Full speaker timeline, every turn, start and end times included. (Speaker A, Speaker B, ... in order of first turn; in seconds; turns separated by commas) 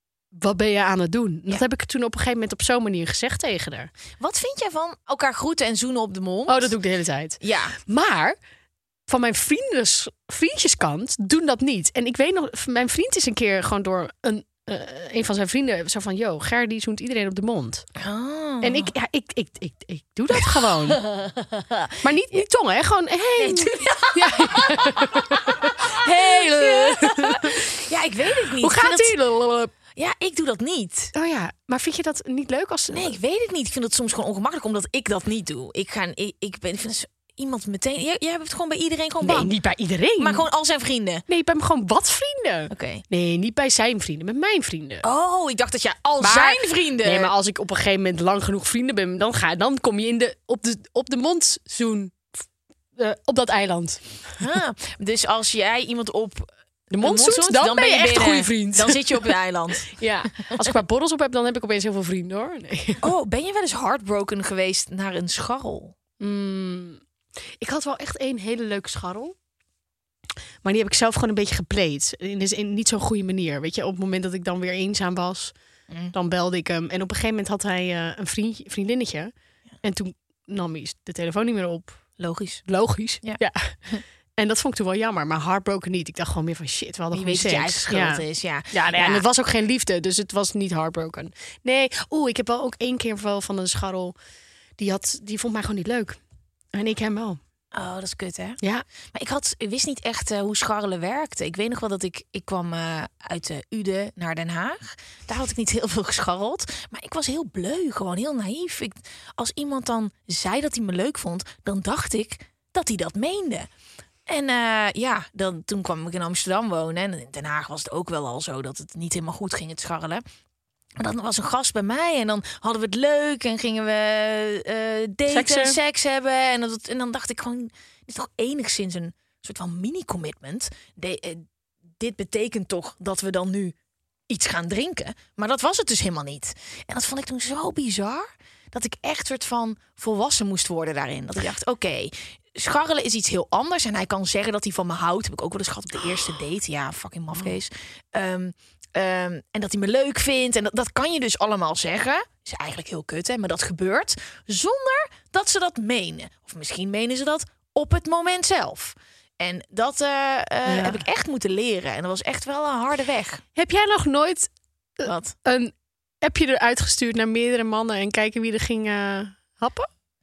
Speaker A: 0.3-3.9, Speaker B: 4.2-6.7, Speaker A: 6.5-8.4, Speaker B: 7.4-7.8, Speaker A: 9.1-17.8, Speaker B: 18.0-18.9, Speaker A: 18.6-21.0, Speaker B: 20.3-21.9, Speaker A: 22.0-27.5, Speaker B: 23.4-29.2, Speaker A: 28.6-29.7, Speaker B: 29.9-31.1, Speaker A: 31.1-33.1, Speaker B: 32.9-39.5, Speaker A: 39.2-40.4, Speaker B: 40.2-41.2, Speaker A: 41.3-45.0, Speaker B: 42.7-43.0, Speaker B: 45.0-47.3, Speaker A: 46.2-52.3, Speaker A: 53.0-54.3, Speaker B: 54.4-60.0, Speaker A: 56.9-59.3, Speaker A: 59.9-63.0, Speaker B: 63.0-66.0, Speaker A: 66.2-67.0, Speaker A: 67.6-69.3, Speaker A: 70.6-75.5, Speaker A: 76.1-82.0, Speaker B: 82.2-82.7, Speaker A: 82.7-83.8, Speaker B: 83.2-84.0, Speaker A: 84.4-94.1, Speaker B: 87.1-89.2, Speaker A: 94.8-96.2, Speaker A: 96.7-97.4, Speaker B: 97.7-98.6, Speaker B: 99.1-113.7, Speaker B: 114.3-120.2, Speaker B: 121.0-131.4, Speaker A: 125.3-125.8, Speaker B: 132.0-133.7, Speaker B: 134.3-163.4, Speaker A: 160.7-161.0, Speaker A: 163.6-169.9, Speaker B: 165.0-165.3